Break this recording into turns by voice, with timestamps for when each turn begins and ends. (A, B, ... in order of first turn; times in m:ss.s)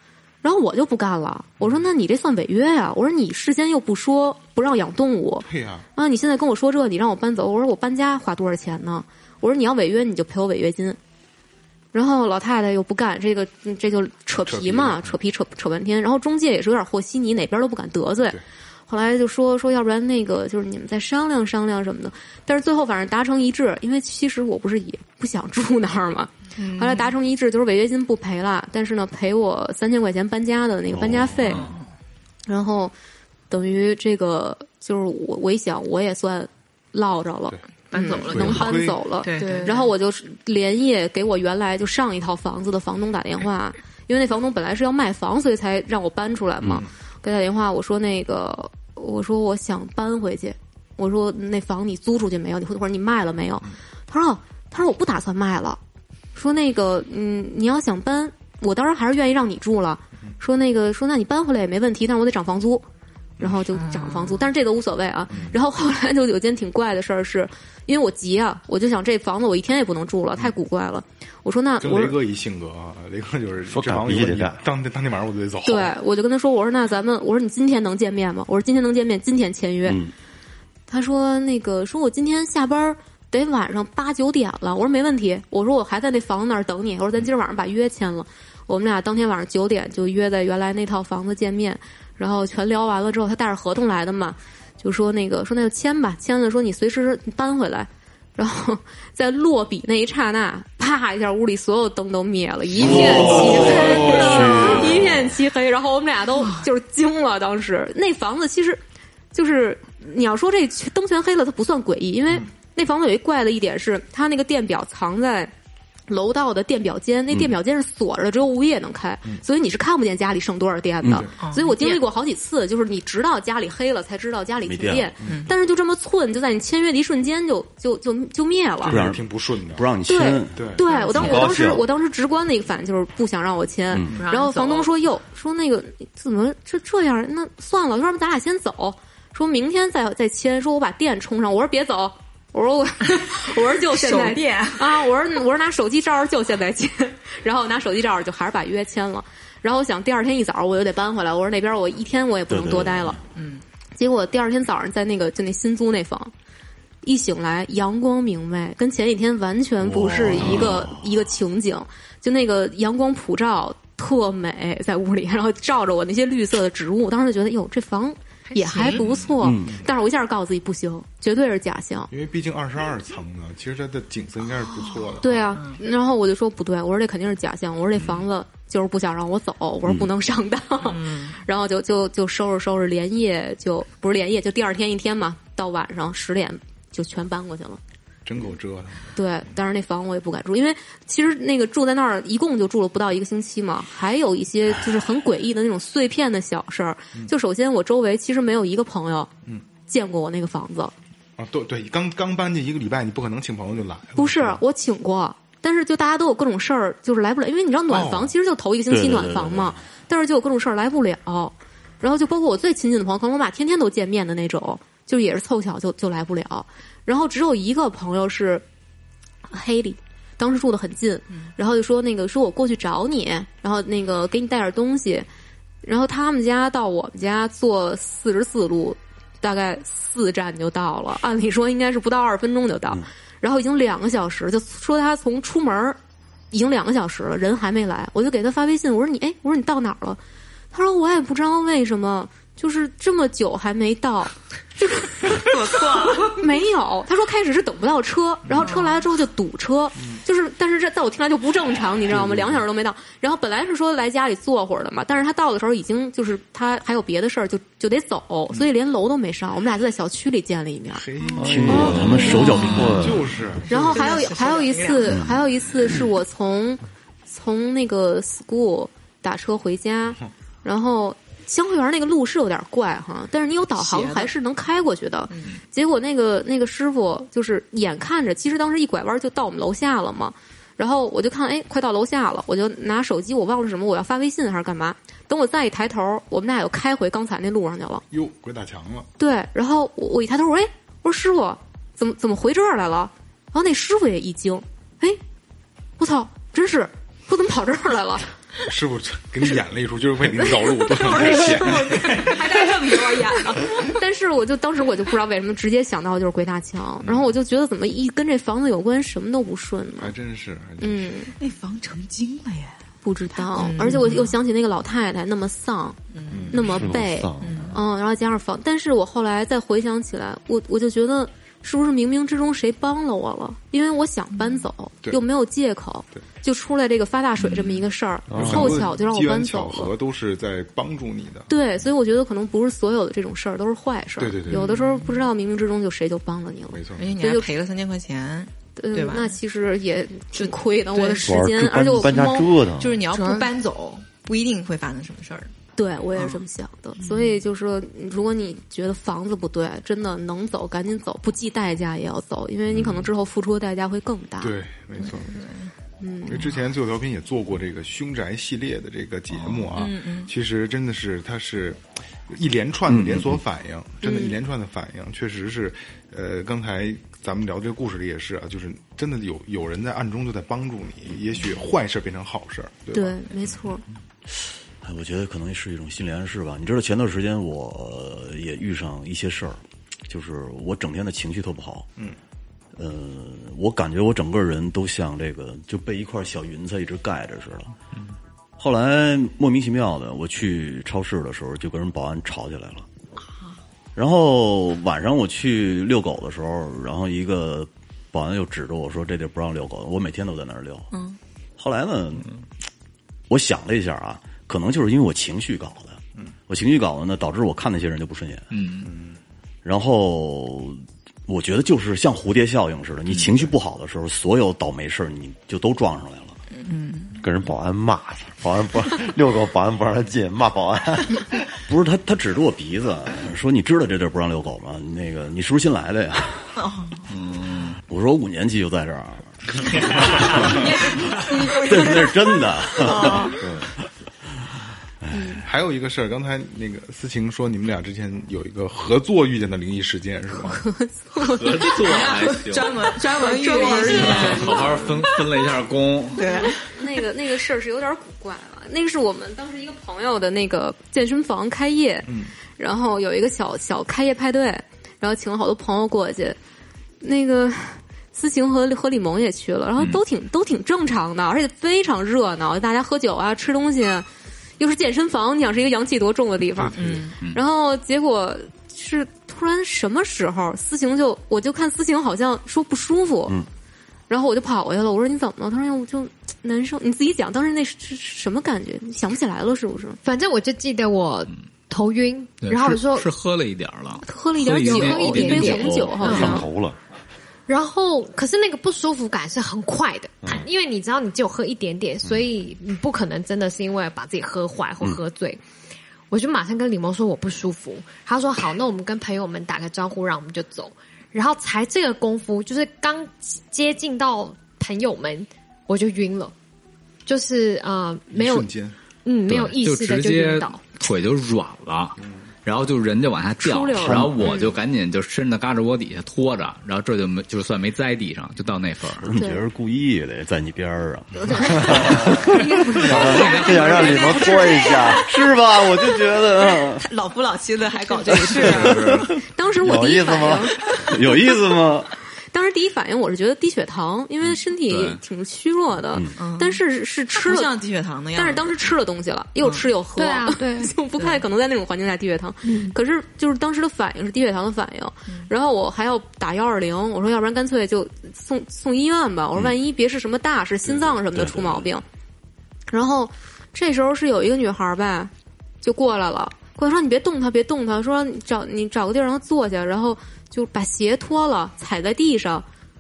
0:00.4-0:11.0 A
0:05.4-0:05.8 B
0:11.9-0:31.7 A
0:14.4-0:15.2 B
0:26.6-0:27.1 C
0:30.9-0:31.6 D
0:32.5-0:32.9 A
0:33.5-0:55.8 A
0:37.9-0:39.9 C
0:38.3-0:39.0 B
0:39.3-0:39.8 E
0:46.6-0:46.9 B
0:56.4-1:02.8 A
1:03.4-1:12.2 A
1:03.7-1:04.5 C
1:05.3-1:05.6 B
1:11.8-1:16.0 B
1:13.7-1:14.6 F
1:15.6-1:20.0 A
1:19.9-1:20.1 D
1:20.9-1:48.8 A
1:42.8-1:45.3 D
1:42.8-1:44.7 B
1:43.2-1:43.5 F
1:43.3-1:44.6 C
1:49.3-1:55.5 A
1:56.1-2:09.0 A
2:01.0-2:01.3 D
2:01.4-2:02.0 C
2:04.6-2:05.2 D
2:05.2-2:05.5 C
2:08.8-2:09.9 B
2:08.9-2:11.7 D
2:10.1-2:33.2 A
2:10.6-2:10.8 B
2:10.9-2:11.3 C
2:11.2-2:11.8 F
2:13.9-2:14.2 D
2:14.1-2:14.9 C
2:23.9-2:24.9 E
2:32.5-2:33.2 D
2:33.4-2:33.6 C
2:34.0-2:36.3 A
2:37.0-2:52.1 A
2:39.8-2:41.0 D
2:48.5-2:49.2 C
2:49.4-2:49.8 D
2:52.1-2:55.5 B
2:54.8-2:55.8 C
2:55.2-3:07.8 A
2:59.8-3:00.1 D
3:00.8-3:01.4 C
3:08.3-3:09.2 B
3:09.2-3:19.3 A
3:19.9-3:20.9 A
3:21.4-3:24.6 B
3:24.2-3:38.6 A
3:27.9-3:28.3 B
3:28.9-3:29.8 D
3:39.5-3:45.3 A
3:45.8-3:56.0 A
3:56.5-4:00.2 A
4:00.7-4:21.1 A
4:05.3-4:06.4 C
4:08.6-4:09.0 C
4:12.1-4:12.6 B
4:20.9-4:24.0 B
4:21.4-4:23.2 D
4:21.4-4:23.4 F
4:21.7-4:22.8 A
4:22.1-4:22.9 C
4:23.6-4:25.3 C
4:23.7-4:48.0 A
4:33.8-4:34.3 C
4:48.1-4:49.1 B
4:49.2-4:55.2 A
4:56.0-4:58.3 A
4:58.6-5:02.0 B
5:01.1-5:03.9 E
5:02.1-5:10.1 A
5:02.1-5:02.6 C
5:07.0-5:07.3 B
5:10.0-5:11.2 B
5:10.8-5:11.3 A
5:11.4-5:12.7 E
5:13.0-5:16.0 A
5:13.4-5:14.1 E
5:13.6-5:14.3 C
5:16.1-5:16.6 C
5:16.3-5:16.7 B
5:16.5-5:29.9 A
5:16.6-5:17.8 F
5:17.4-5:17.8 C
5:27.5-5:27.8 G
5:28.3-5:28.8 F
5:28.3-5:31.5 B
5:31.5-5:37.5 A
5:34.2-5:34.7 B
5:34.5-5:35.2 C
5:36.7-5:37.1 B
5:37.0-5:39.3 C
5:38.8-5:42.5 A
5:40.3-5:41.4 C
5:41.2-5:43.0 F
5:42.0-5:42.3 C
5:42.8-5:45.5 C
5:45.8-5:54.5 A
5:46.2-5:46.4 C
5:47.0-5:47.4 C
5:54.4-5:55.5 B
5:55.3-5:55.7 C
5:56.0-5:56.5 A
5:56.3-6:13.2 B
5:59.7-6:00.3 C
6:02.9-6:03.4 D
6:04.0-6:04.4 A
6:12.9-6:13.8 A
6:14.8-6:21.9 D
6:22.8-6:27.7 D
6:28.6-6:32.9 D
6:34.0-6:40.9 D
6:40.9-6:41.2 C
6:41.6-6:42.3 D
6:43.3-6:48.5 D
6:48.5-6:48.9 G
6:48.8-6:49.2 B
6:49.6-6:56.4 D
6:56.5-6:57.2 C
6:57.2-7:01.3 F
7:01.7-7:06.6 D
7:06.6-7:07.0 C
7:07.1-7:07.8 G
7:07.9-7:10.7 D
7:10.5-7:12.2 C
7:11.6-7:13.3 D
7:12.8-7:13.4 C
7:15.1-7:15.4 D
7:15.4-7:20.6 B
7:20.5-7:21.8 A
7:21.2-7:22.8 G
7:21.8-7:25.3 C
7:21.9-7:25.0 E
7:23.9-7:26.3 G
7:26.2-7:26.7 C
7:26.4-7:36.4 A
7:32.1-7:32.3 B
7:37.0-7:44.1 A
7:39.8-7:40.0 G
7:44.6-7:53.4 A
7:46.6-7:47.0 B
7:46.8-7:47.2 C
7:54.1-8:00.0 A
8:00.0-8:03.1 H
8:02.4-8:06.0 G
8:04.0-8:06.5 A
8:04.7-8:06.4 H
8:05.5-8:06.4 D
8:06.0-8:06.8 F
8:07.5-8:15.4 H
8:16.1-8:26.3 H
8:27.1-8:28.5 H
8:28.1-8:28.8 B
8:29.0-8:30.8 H
8:29.3-8:39.1 G
8:33.4-8:34.6 A
8:39.0-8:42.4 D
8:39.2-8:39.4 A
8:41.4-8:45.1 F
8:42.2-8:44.7 A
8:43.2-8:45.1 C
8:44.9-8:46.8 D
8:45.6-8:49.1 C
8:48.3-8:48.7 F
8:48.4-8:49.0 D
8:48.5-8:49.1 G
8:49.2-8:50.9 A
8:49.6-8:50.5 F
8:49.7-8:50.0 D
8:50.8-8:51.9 D
8:52.3-8:57.5 A
8:54.3-8:55.0 G
8:56.2-8:58.6 C
8:58.1-9:11.8 A
8:59.4-8:59.7 C
9:00.0-9:00.7 H
9:11.1-9:11.7 D
9:12.7-9:22.4 A